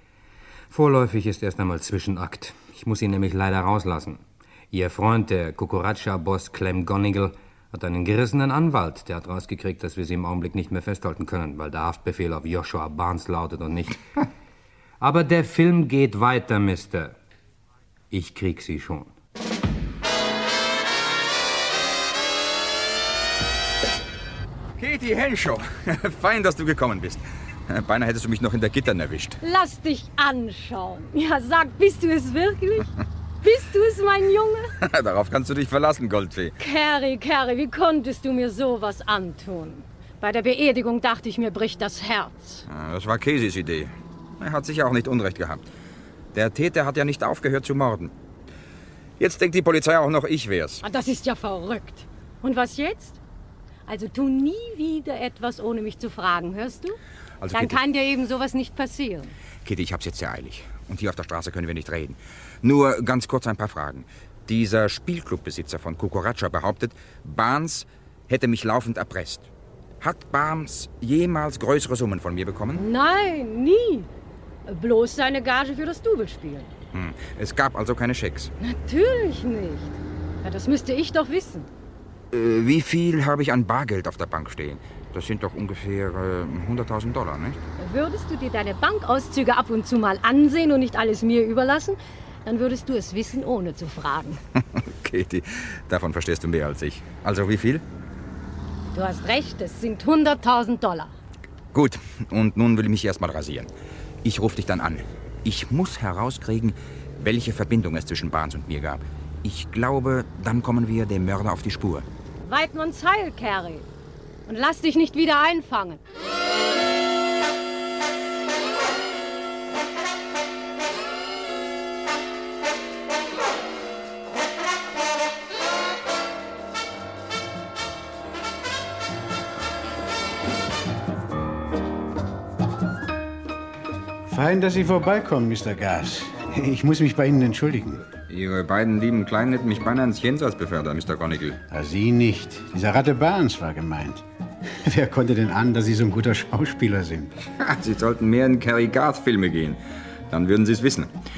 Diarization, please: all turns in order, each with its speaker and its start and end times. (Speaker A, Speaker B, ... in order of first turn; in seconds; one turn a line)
Speaker A: 0.7-14.0
Speaker A: 15.0-17.1
Speaker A: 18.1-19.1
Speaker B: 24.8-29.4
Speaker C: 29.4-32.9
Speaker C: 33.4-34.7
Speaker B: 34.8-36.5
Speaker C: 36.6-42.6
Speaker B: 42.7-45.6
Speaker B: 46.3-48.1
Speaker B: 49.2-50.8
Speaker C: 50.8-53.2
Speaker C: 53.9-57.0
Speaker B: 57.4-57.8
Speaker C: 57.5-59.3
Speaker B: 59.6-69.5
Speaker B: 70.0-72.8
Speaker C: 72.7-74.1
Speaker C: 74.7-76.7
Speaker B: 76.9-78.5
Speaker C: 78.6-81.7
Speaker B: 82.3-87.6
Speaker C: 87.8-94.4
Speaker B: 94.7-97.8
Speaker C: 98.9-101.1
Speaker B: 101.7-103.7
Speaker B: 104.2-112.1
Speaker C: 112.4-113.8
Speaker C: 114.5-116.0
Speaker D: 134.3-138.0
Speaker B: 138.3-141.6
Speaker D: 141.7-147.3
Speaker B: 147.6-151.1